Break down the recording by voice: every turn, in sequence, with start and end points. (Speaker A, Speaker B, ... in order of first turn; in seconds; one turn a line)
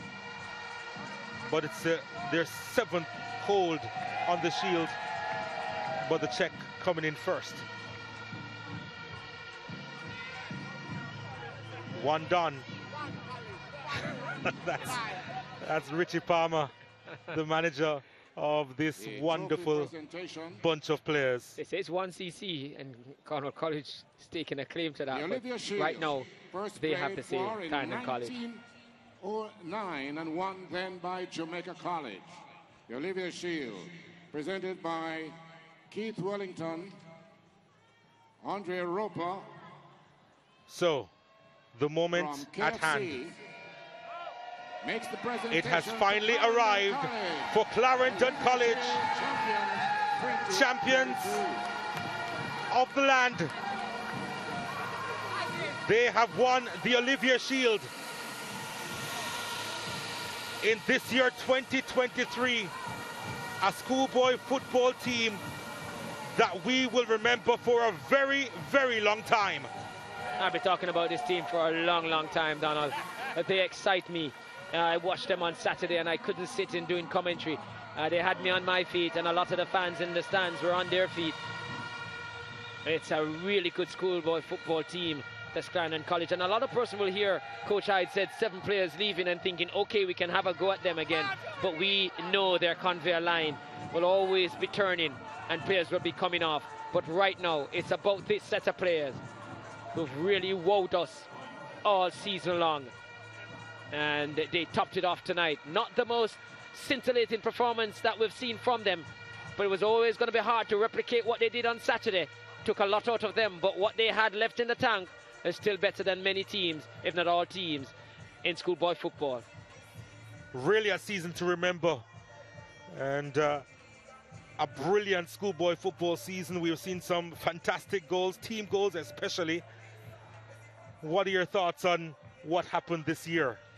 Speaker A: 1.5-5.0
Speaker A: 6.0-7.7
Speaker A: 11.9-12.7
Speaker A: 14.3-15.1
Speaker A: 15.6-16.7
Speaker A: 17.3-19.9
Speaker B: 19.0-20.6
Speaker A: 20.6-21.6
Speaker C: 21.6-28.4
Speaker B: 25.1-28.6
Speaker B: 29.2-32.3
Speaker B: 32.9-35.4
Speaker B: 35.9-37.0
Speaker B: 38.4-39.5
Speaker A: 40.7-41.1
Speaker A: 41.8-43.2
Speaker B: 42.1-43.4
Speaker B: 44.8-51.7
Speaker A: 45.5-49.0
Speaker A: 50.5-51.4
Speaker A: 52.7-53.5
Speaker A: 55.8-57.9
Speaker A: 60.6-62.7
Speaker A: 63.6-65.4
Speaker A: 66.3-69.7
Speaker C: 70.4-81.4
Speaker C: 82.8-99.2
Speaker C: 99.9-101.3
Speaker C: 101.8-102.9
Speaker C: 103.9-119.4
Speaker A: 120.5-122.0
Speaker A: 122.9-123.6
Speaker A: 124.6-129.6
Speaker A: 131.0-133.6